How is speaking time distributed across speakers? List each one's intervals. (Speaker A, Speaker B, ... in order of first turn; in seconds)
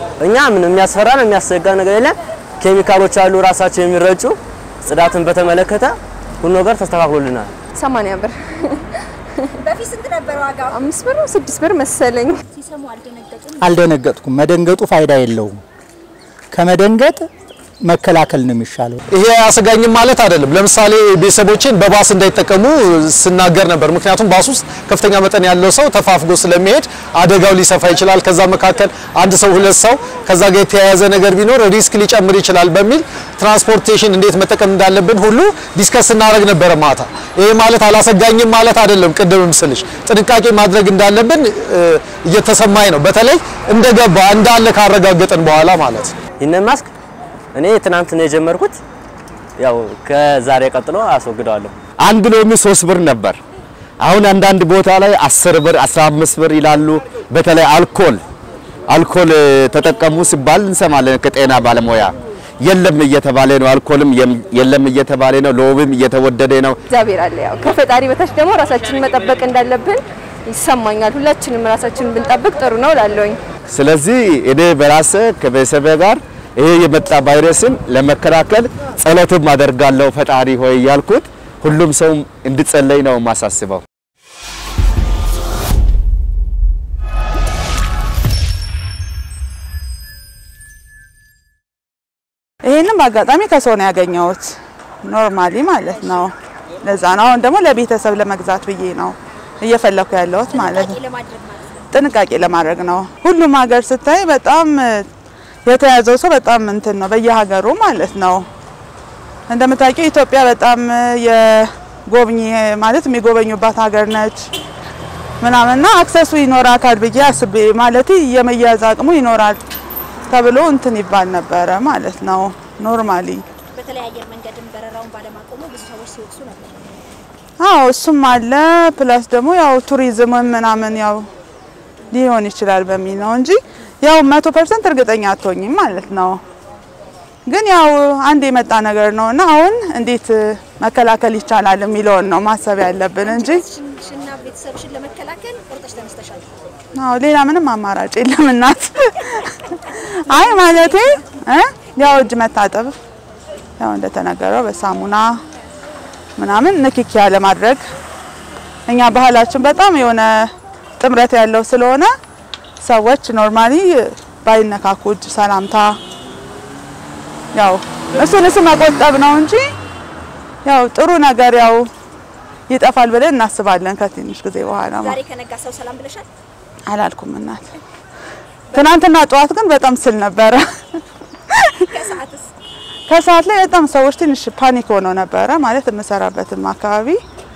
Speaker A: 0.2-7.5, 46.4-46.9, 47.5-48.8, 49.6-51.7
Speaker B: 7.8-8.8, 10.7-12.4, 66.9-73.4
Speaker C: 9.7-10.8, 12.6-13.6, 100.5-101.8, 123.7-126.8, 143.2-146.7, 150.2-151.2, 174.8-176.3, 181.8-182.5
Speaker D: 13.6-15.6, 16.5-17.2, 17.8-19.0
Speaker E: 19.1-46.1
Speaker F: 52.0-53.4, 54.0-58.2, 58.9-66.8, 73.7-83.8
Speaker G: 92.6-101.0, 101.9-105.1, 105.7-108.5, 109.5-114.5, 115.4-119.6, 120.3-123.4, 127.6-131.3, 132.1-136.4, 137.5-143.6, 146.9-153.0, 153.8-155.4, 156.4-157.8, 158.9-162.1, 162.8-166.0, 167.5-169.7, 170.7-171.9, 172.7-175.2, 176.9-177.7, 178.7-180.7, 181.5-182.2, 183.1-187.2